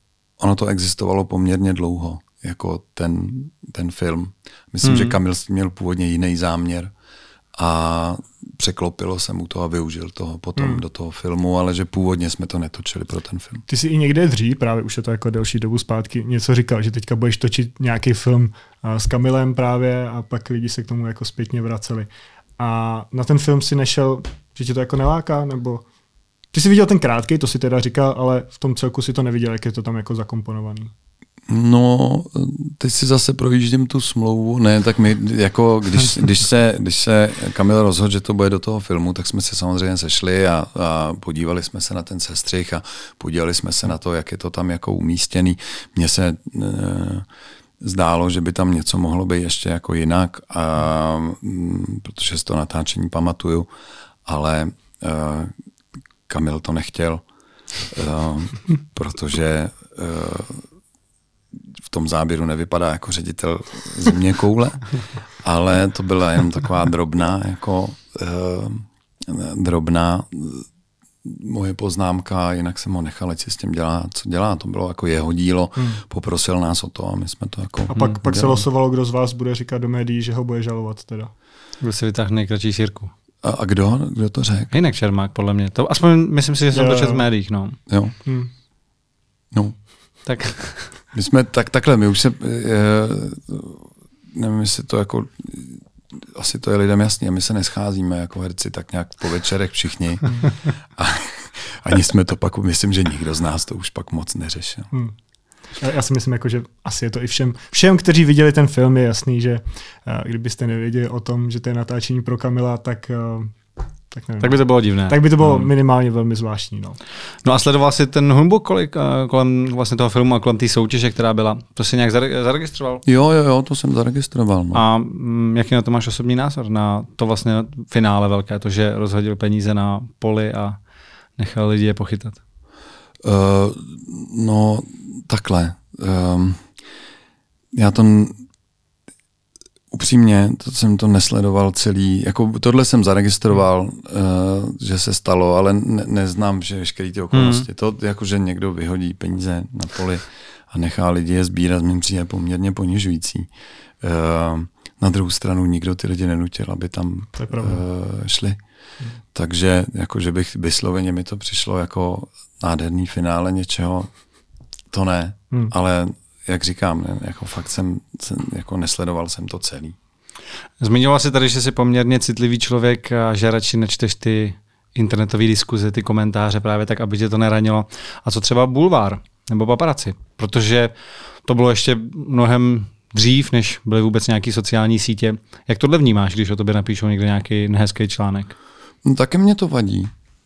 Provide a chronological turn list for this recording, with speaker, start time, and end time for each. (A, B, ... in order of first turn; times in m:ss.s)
0:00.4-0:06.9 A
0:04.8-0:05.2 B
0:07.6-0:13.6 A
0:10.6-0:10.8 C
0:13.7-0:25.8 C
0:26.5-0:30.9 C
0:31.5-0:47.2 A
0:47.8-0:53.7 A
0:54.2-0:55.5 A
0:56.3-0:57.2 A
0:57.9-1:00.6 A
1:01.9-1:04.9 A
1:05.4-1:10.6 A
1:11.2-1:18.6 A
1:17.9-1:21.3 C
1:21.8-1:23.1 B
1:23.4-1:24.7 A
1:24.7-1:27.8 B
1:26.7-1:27.2 C
1:27.9-1:28.1 A
1:28.2-1:28.5 C
1:30.2-1:30.9 B
1:31.1-1:44.9 A
1:45.8-1:53.5 C
1:54.1-1:54.6 C
1:54.4-1:55.7 B
1:55.1-1:57.0 C
1:57.4-2:03.0 B
2:03.0-2:04.8 A
2:04.7-2:10.8 B
2:11.4-2:12.4 B
2:13.2-2:16.6 A
2:17.7-2:18.4 A
2:19.9-2:33.5 A
2:27.3-2:27.6 B
2:34.0-2:38.6 A
2:37.4-2:37.8 C
2:39.3-2:44.1 A
2:44.9-2:50.0 A
2:50.8-3:00.9 B
3:01.4-3:08.5 B
3:09.0-3:10.1 A